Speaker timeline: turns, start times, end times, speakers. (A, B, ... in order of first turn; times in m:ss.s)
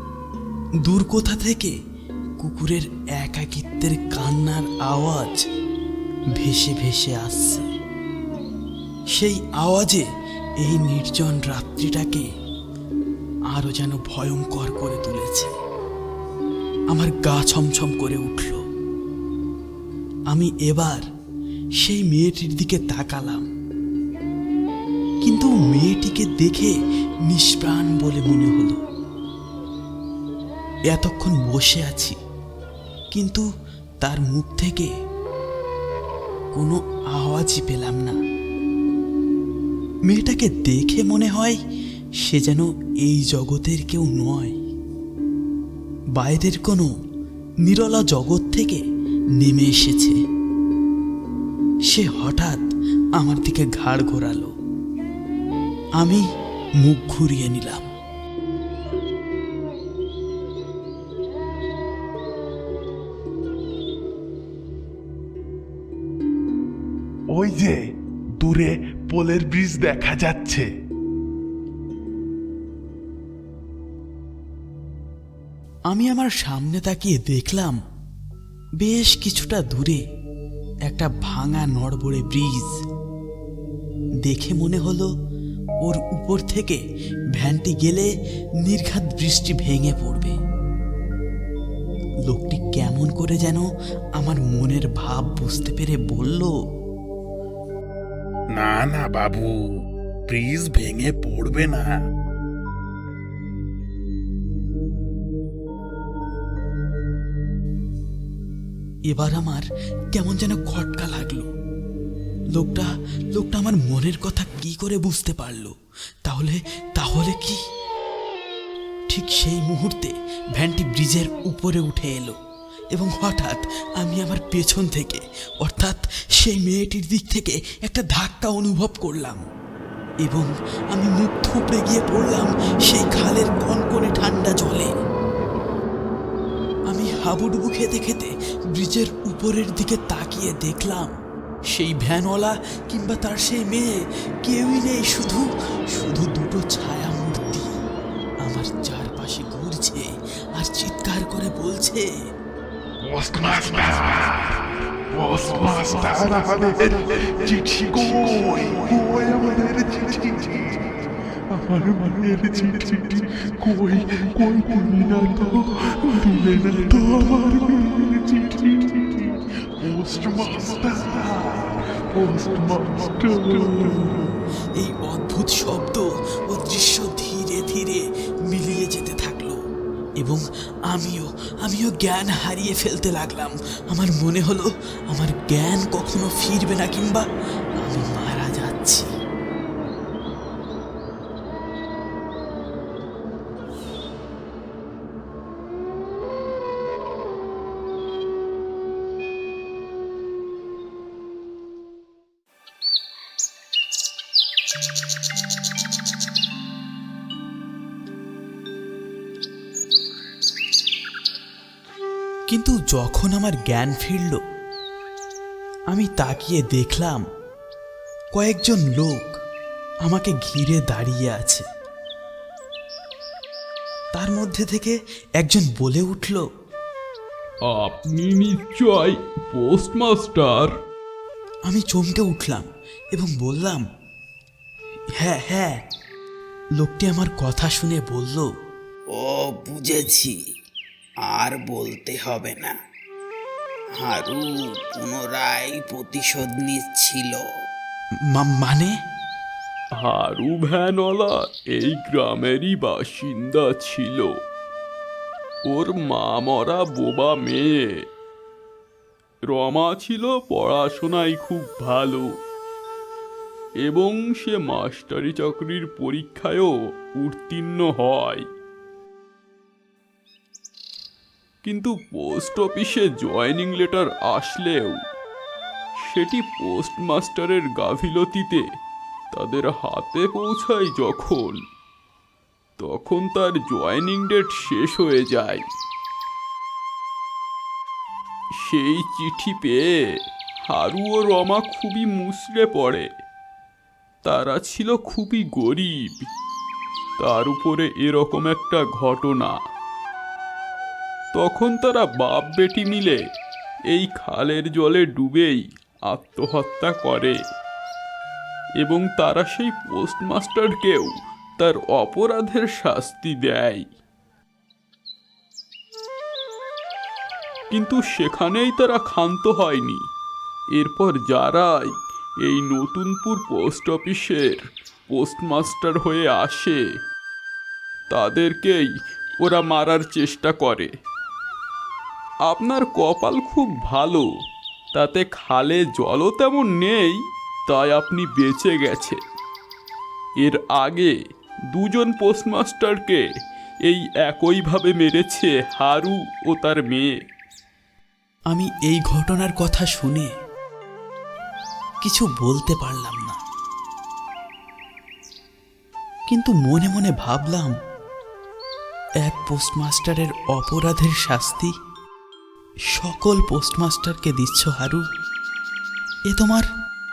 0:00.8-0:01.7 A
0:02.4-0:05.4 A
0:06.4-0:07.7 A
0:09.2-0:10.0 A
0:10.6-0:12.2 A
0:13.5-0:15.5 A
0:16.9-0:18.6 A
0:20.3-0:21.0 A
0:21.8-0:23.4 A
0:25.2-0:26.7 A
0:27.3-0:28.8 A
0:30.9-0:32.2 A
0:33.1-0:33.4 A
0:34.0-0:34.9 A
0:36.5-0:38.2 A
0:40.1-0:41.6 A
0:42.2-0:44.6 A
0:46.2-0:46.9 A
0:47.6-0:48.8 A
0:49.4-0:50.2 A
0:51.9-0:52.6 A
0:53.2-0:54.5 A
0:56.0-0:56.2 A
0:56.8-0:57.8 A
1:07.3-1:07.8 B
1:08.4-1:10.7 B
1:15.9-1:17.8 A
1:18.8-1:20.0 A
1:20.9-1:22.7 A
1:24.2-1:25.1 A
1:25.8-1:26.8 A
1:27.3-1:28.1 A
1:28.6-1:30.4 A
1:32.3-1:33.6 A
1:34.2-1:36.5 A
1:38.6-1:39.5 B
1:40.3-1:41.9 B
1:49.1-1:51.5 A
1:52.6-1:55.7 A
1:56.2-1:57.6 A
1:59.1-2:02.4 A
2:02.9-2:09.4 A
2:10.2-2:14.9 A
2:16.9-2:21.1 A
2:21.7-2:27.7 A
2:28.4-2:32.1 A
2:33.0-2:41.0 B
2:41.5-2:54.2 B
2:54.8-2:59.6 A
3:00.2-3:07.3 A
3:07.8-3:09.1 A
3:32.5-3:34.4 A
3:35.9-3:37.2 A
3:38.3-3:39.3 A
3:40.0-3:41.6 A
3:44.2-3:46.4 A
3:47.6-3:50.7 C
3:51.7-3:53.8 A
3:55.2-3:55.8 A
3:56.8-3:58.5 A
3:59.2-4:00.3 D
3:59.2-4:00.3 A
4:01.3-4:02.7 D
4:01.4-4:02.6 A
4:04.1-4:04.4 D
4:05.0-4:07.3 D
4:05.1-4:07.3 A
4:08.3-4:08.9 A
4:10.0-4:14.3 C
4:15.7-4:18.0 C
4:19.5-4:22.3 C
4:23.8-4:28.5 C
4:31.6-4:35.0 C
4:36.0-4:38.6 C
4:39.3-4:41.6 C
4:42.8-4:45.6 C
4:48.6-4:50.1 C
4:50.7-4:53.1 C
4:54.2-4:56.3 C
4:57.2-4:59.6 C
5:01.3-5:03.2 C
5:03.9-5:07.4 C
5:08.8-5:13.9 C
5:17.7-5:20.1 C
5:20.8-5:26.8 C
5:28.1-5:30.9 C
5:32.5-5:34.3 C
5:34.9-5:39.2 C
5:40.4-5:41.1 C
5:41.7-5:43.2 C
5:43.8-5:47.1 C
5:48.5-5:50.3 A
5:52.0-5:53.4 A
5:56.3-5:57.7 A
5:59.2-6:01.7 A
6:02.9-6:05.0 A
6:06.3-6:06.7 A